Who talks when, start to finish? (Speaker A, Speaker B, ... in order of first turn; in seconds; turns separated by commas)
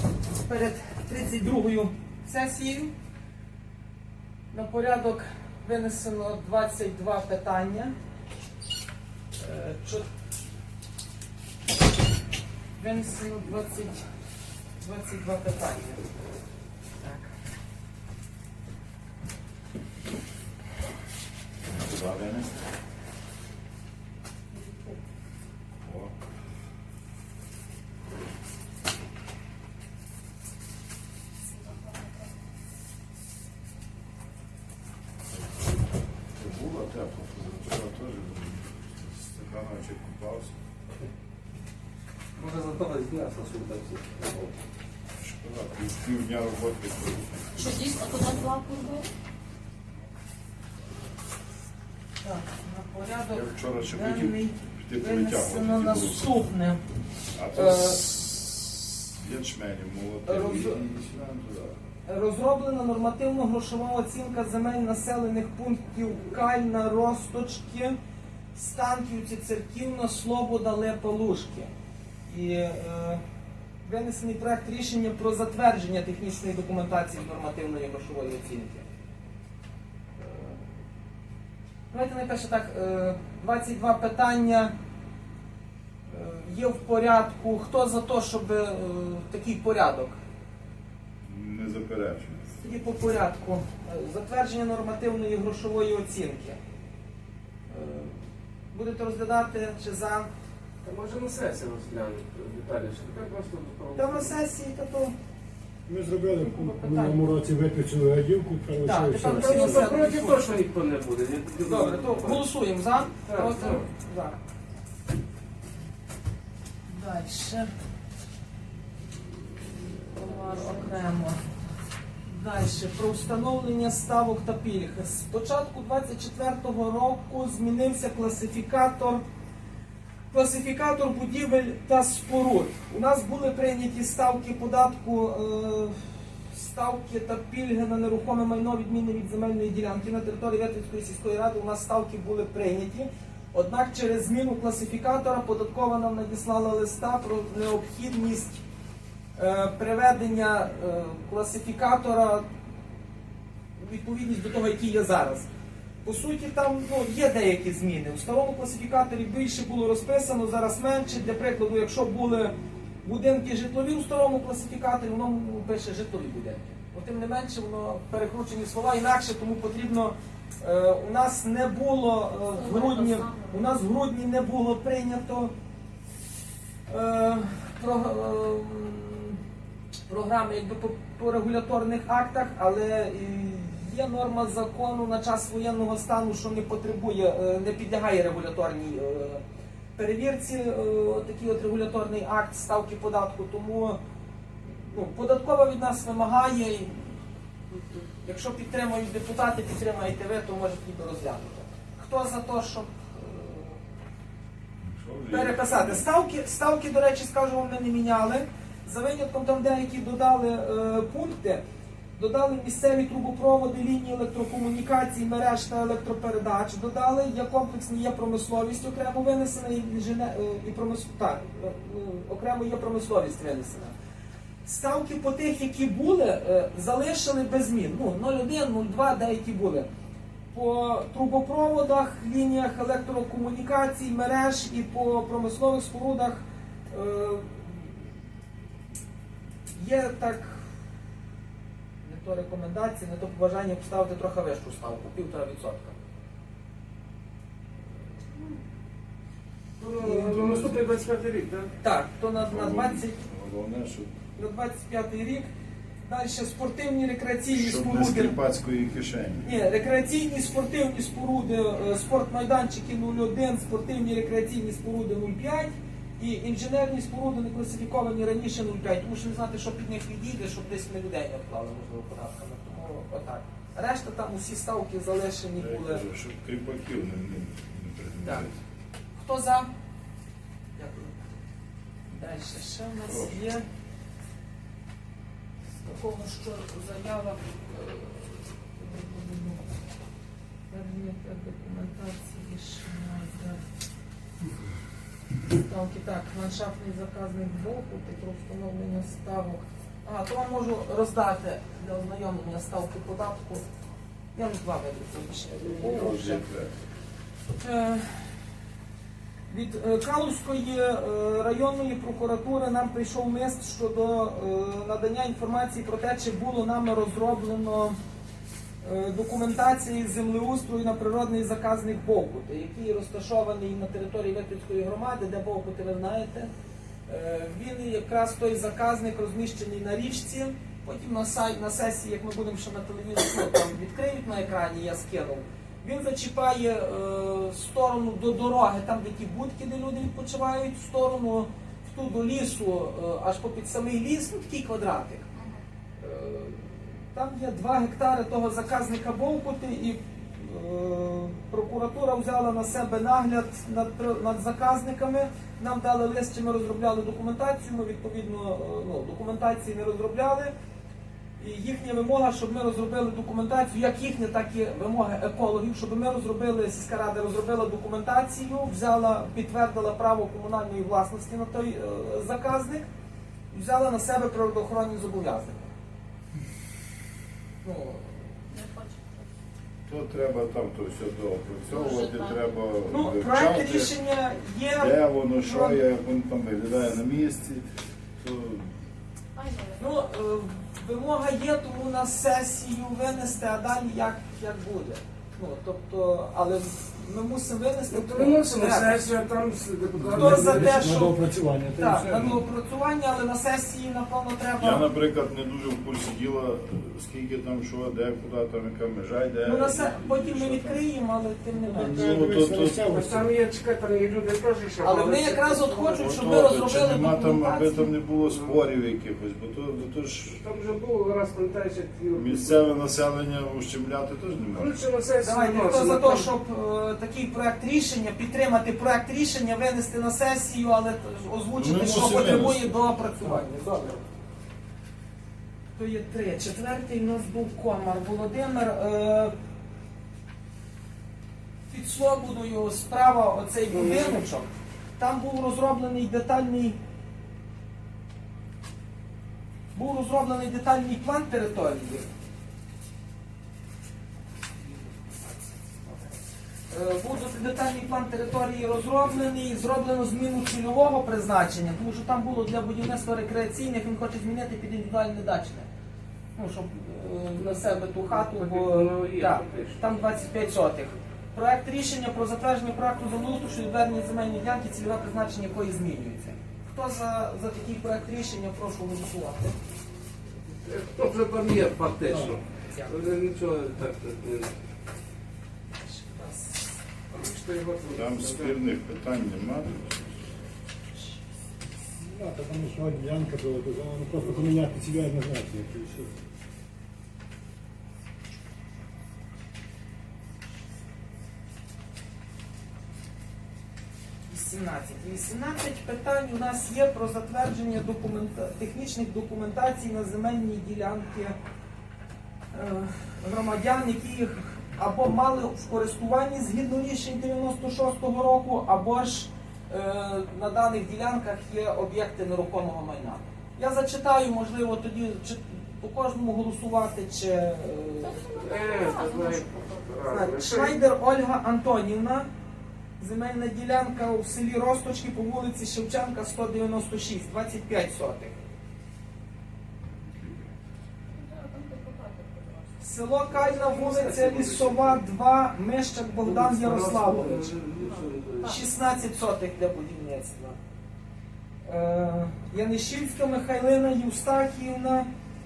Speaker A: 0.4-2.9, Speaker A: 4.5-7.9, Speaker A: 9.4-10.1, Speaker A: 12.8-14.0, Speaker A: 14.8-16.0, Speaker A: 17.0-17.4, Speaker B: 21.7-22.5, Speaker B: 25.8-26.1, Speaker B: 36.4-40.5, Speaker C: 42.4-44.5, Speaker B: 45.2-47.7, Speaker D: 47.6-49.1, Speaker A: 52.2-56.8, Speaker B: 53.3-56.3, Speaker B: 57.4-61.8, Speaker A: 57.5-58.0, Speaker A: 60.2-60.8, Speaker A: 62.0-68.0, Speaker A: 68.5-71.7, Speaker A: 72.3-73.2, Speaker A: 73.8-78.9, Speaker A: 80.2-80.6, Speaker A: 81.9-84.7, Speaker A: 86.1-90.2, Speaker B: 91.2-92.6, Speaker A: 92.6-96.6, Speaker A: 97.7-98.1, Speaker A: 98.7-100.3, Speaker C: 100.8-104.3, Speaker A: 104.0-105.1, Speaker E: 105.9-109.9, Speaker A: 106.3-107.2, Speaker A: 108.8-110.5, Speaker C: 109.3-112.5, Speaker A: 111.6-114.4, Speaker C: 113.3-113.8, Speaker A: 116.9-117.7, Speaker A: 120.1-121.4, Speaker D: 120.4-120.8, Speaker A: 122.3-129.2, Speaker A: 130.3-148.6, Speaker A: 149.4-152.5, Speaker A: 153.8-155.5, Speaker A: 156.0-175.5, Speaker D: 172.5-173.7, Speaker A: 176.9-179.4, Speaker A: 180.1-189.4, Speaker A: 190.0-194.0, Speaker A: 194.9-197.2, Speaker A: 197.7-203.8, Speaker B: 204.8-206.1, Speaker A: 205.3-211.6, Speaker A: 212.2-223.9, Speaker A: 224.7-229.9, Speaker A: 230.5-237.9, Speaker A: 239.8-240.6, Speaker A: 242.0-246.0, Speaker C: 249.8-251.7, Speaker B: 250.0-250.8, Speaker A: 251.8-253.2, Speaker B: 252.4-254.1, Speaker A: 254.4-255.5, Speaker A: 256.1-258.4, Speaker B: 257.5-259.5, Speaker A: 259.4-276.1, Speaker B: 275.6-278.6, Speaker A: 279.1-279.7, Speaker A: 280.8-281.2, Speaker A: 282.1-283.6, Speaker B: 283.1-283.4, Speaker A: 285.8-289.7, Speaker A: 290.7-293.6, Speaker A: 295.5-303.6, Speaker A: 304.4-306.4, Speaker B: 305.8-306.7, Speaker A: 307.5-308.2, Speaker A: 309.5-318.0, Speaker A: 318.8-326.5, Speaker A: 327.1-345.3, Speaker A: 346.0-360.5, Speaker A: 361.4-372.9, Speaker A: 373.5-375.7, Speaker A: 377.6-378.2, Speaker D: 378.5-379.2, Speaker B: 379.9-383.9, Speaker D: 381.7-382.4, Speaker A: 382.9-385.8, Speaker B: 384.8-387.7, Speaker B: 388.2-388.7, Speaker D: 389.4-389.8, Speaker A: 389.8-399.0, Speaker C: 397.9-400.9, Speaker E: 400.0-402.4, Speaker A: 400.1-401.2, Speaker A: 401.8-404.9, Speaker B: 404.6-410.8, Speaker A: 409.4-412.2, Speaker E: 411.7-413.3, Speaker B: 411.9-412.9, Speaker C: 412.9-416.0, Speaker A: 414.8-417.9, Speaker B: 416.0-420.4, Speaker C: 418.3-418.6, Speaker C: 420.3-422.6, Speaker B: 422.1-424.7, Speaker C: 424.5-426.3, Speaker A: 425.2-434.0, Speaker B: 431.6-432.6, Speaker A: 435.8-439.3, Speaker A: 441.7-446.8, Speaker C: 443.7-444.2, Speaker A: 449.7-452.1, Speaker A: 454.6-456.1, Speaker A: 456.7-465.7, Speaker A: 466.4-479.6, Speaker C: 467.9-469.9, Speaker C: 480.6-484.5, Speaker E: 482.1-482.4, Speaker A: 482.6-483.0, Speaker A: 485.7-486.6, Speaker C: 487.1-488.6, Speaker B: 487.9-490.2, Speaker E: 492.0-496.1, Speaker A: 504.3-511.4, Speaker A: 512.5-528.3, Speaker D: 528.0-529.7, Speaker C: 528.3-530.8, Speaker A: 530.1-532.3, Speaker A: 533.0-538.4, Speaker B: 540.0-540.5, Speaker D: 541.1-542.8, Speaker A: 542.8-547.5, Speaker C: 543.3-545.0, Speaker C: 546.2-548.6, Speaker D: 547.8-548.5, Speaker A: 548.4-550.6, Speaker A: 551.6-555.1